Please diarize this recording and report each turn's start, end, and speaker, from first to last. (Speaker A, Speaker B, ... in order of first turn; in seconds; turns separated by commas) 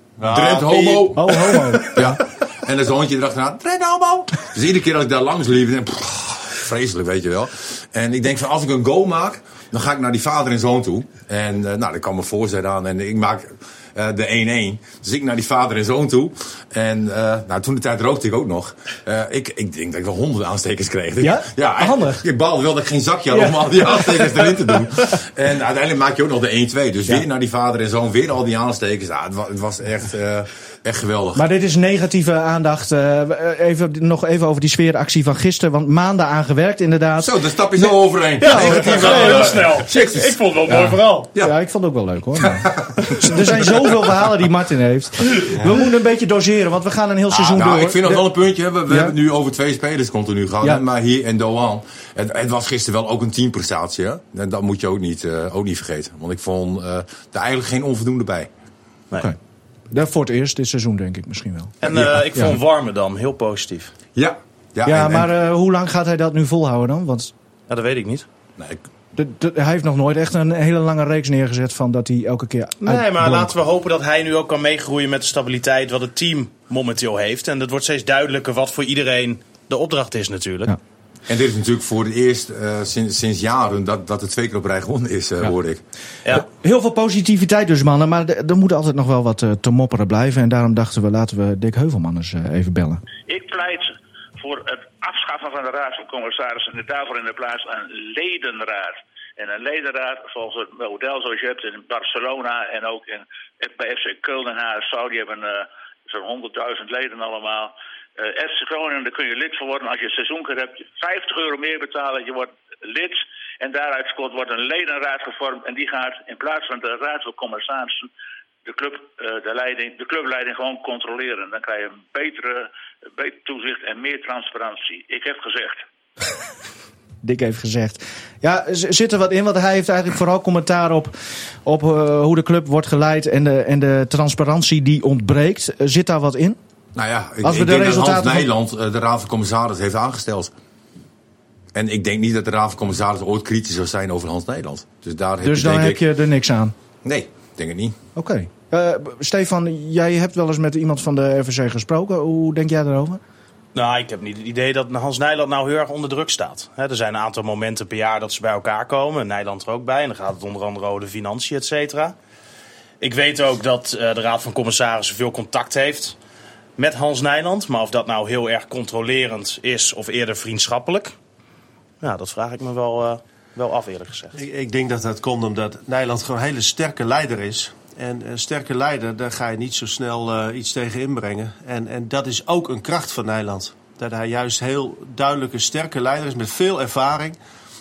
Speaker A: 0.2-1.2, Speaker B: 0.2-31.4, Speaker C: 1.1-2.2, Speaker C: 21.2-22.2, Speaker C: 23.3-24.9, Speaker C: 31.4-37.9, Speaker B: 37.2-40.4, Speaker C: 38.4-39.6, Speaker D: 38.4-41.3, Speaker C: 40.7-48.2, Speaker B: 42.4-44.1, Speaker B: 47.3-58.5, Speaker C: 48.9-49.1, Speaker C: 59.9-61.8, Speaker D: 61.8-63.9, Speaker B: 61.8-62.4, Speaker B: 64.2-65.3, Speaker C: 64.8-67.3, Speaker D: 67.7-68.3, Speaker C: 69.2-73.5, Speaker D: 72.8-80.8, Speaker B: 81.3-85.8, Speaker C: 86.4-93.0, Speaker E: 93.3-118.1, Speaker E: 118.7-125.8, Speaker C: 127.2-131.1, Speaker C: 131.7-136.6, Speaker B: 136.9-140.5, Speaker C: 137.4-138.5, Speaker B: 141.7-146.1, Speaker C: 145.4-146.7, Speaker B: 147.0-148.0, Speaker C: 148.2-153.2, Speaker D: 153.8-162.2, Speaker D: 163.0-166.2, Speaker D: 166.8-171.1, Speaker D: 172.0-174.3, Speaker A: 174.3-187.4